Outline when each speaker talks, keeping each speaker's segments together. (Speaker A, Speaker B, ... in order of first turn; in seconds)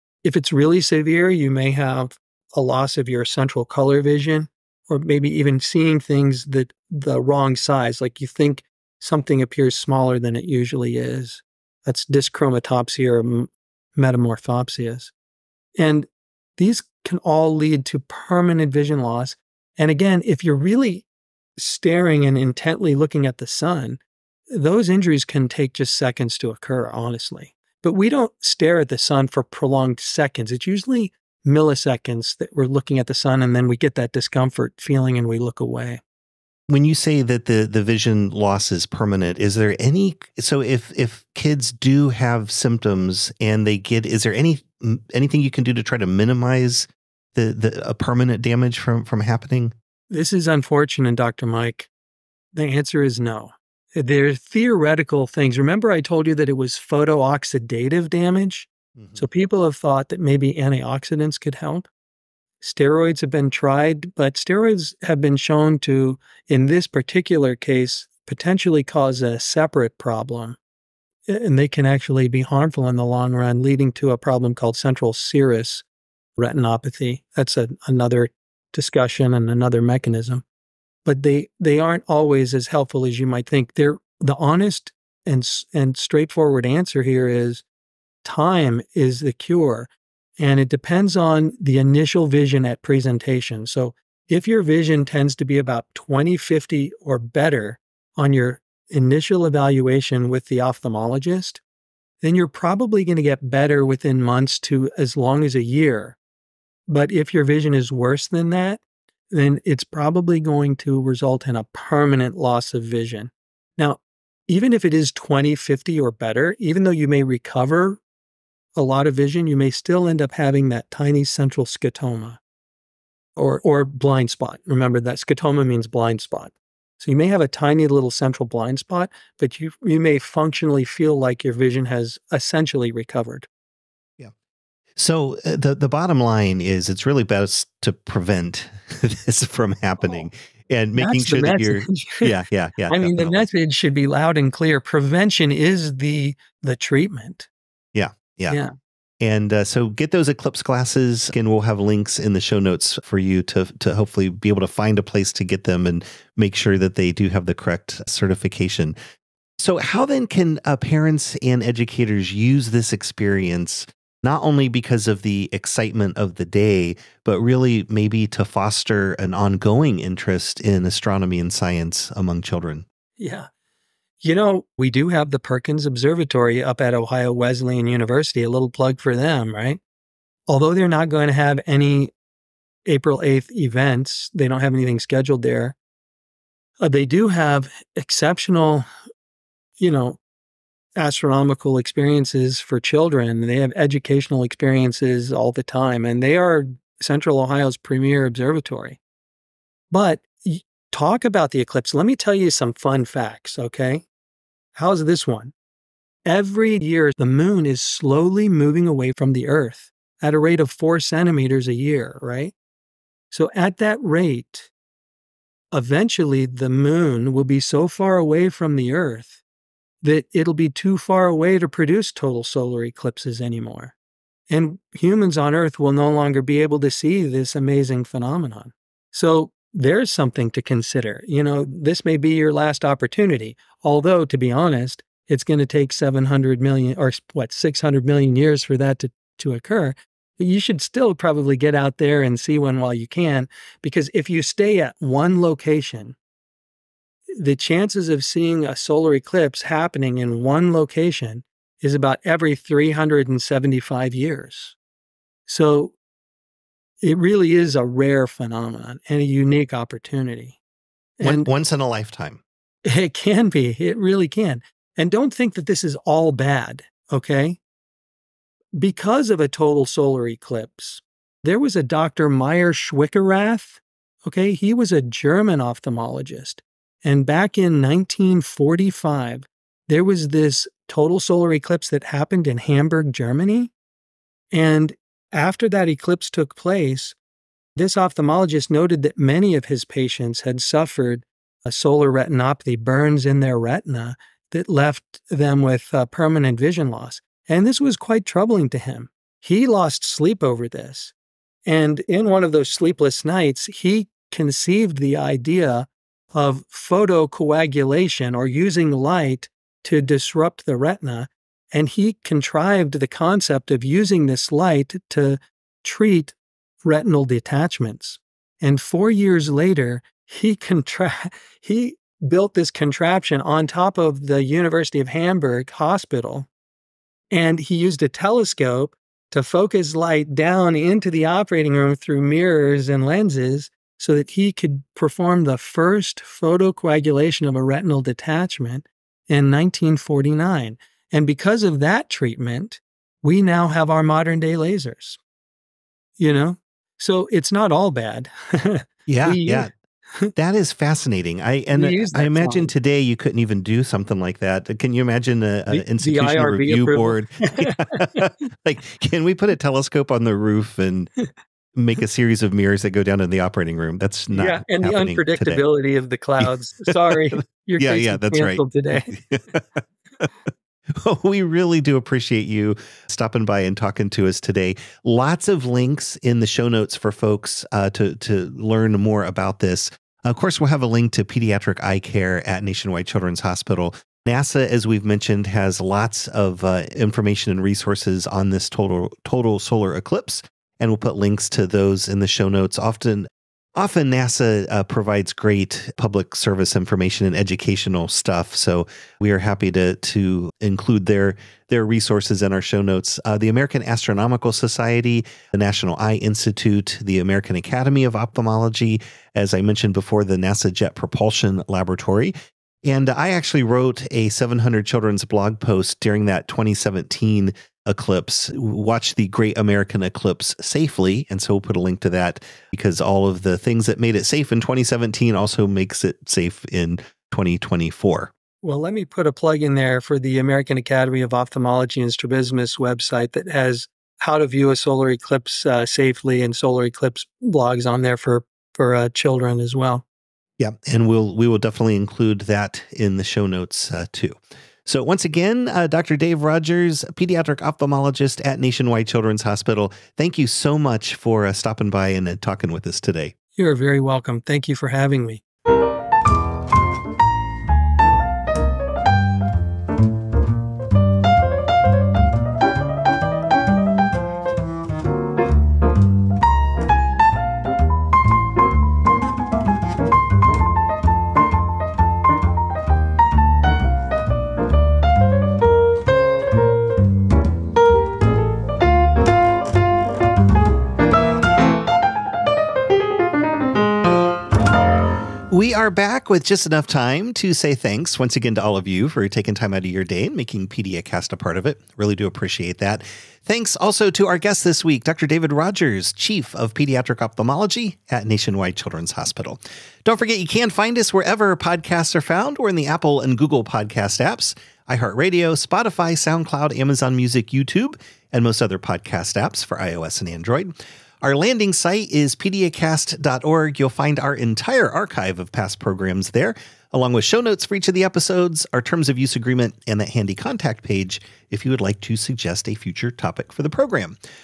Speaker A: 0.2-15.1, 15.8-21.1, 21.6-24.0, 24.5-36.0, 50.1-51.9, 52.5-61.9, 62.6-70.6, 71.3-75.8, 76.4-80.4, 81.0-87.6, 88.2-101.6, 102.2-106.2, 106.9-118.0, 118.8-122.4, 123.4-133.5, 140.9-142.3, 142.9-147.5, 173.2-173.5, 174.2-179.8, 180.5-182.1, 182.9-185.8, 186.8-188.9, 189.8-190.2, 191.0-199.0, 199.9-204.1, 204.7-205.5, 206.3-212.5, 213.3-214.7, 215.7-219.4, 220.0-223.9, 224.5-246.2, 247.4-254.8, 255.4-255.9, 257.0-260.6, 261.2-261.5, 262.9-267.6, 268.8-283.7, 284.5-287.2, 287.8-301.1, 301.7-326.5, 327.3-345.2, 346.2-350.3, 351.7-352.7, 355.7-357.8, 364.3-369.1, 428.6-440.1, 453.6-455.4
Speaker B: 36.7-49.7, 59.0-59.2, 134.9-143.4, 147.9-148.6, 149.2-158.9, 159.6-172.8, 261.2-262.4, 349.1-349.7, 350.4-361.1, 361.8-365.6, 366.4-369.6, 370.9-428.3, 440.6-453.3, 485.5-524.2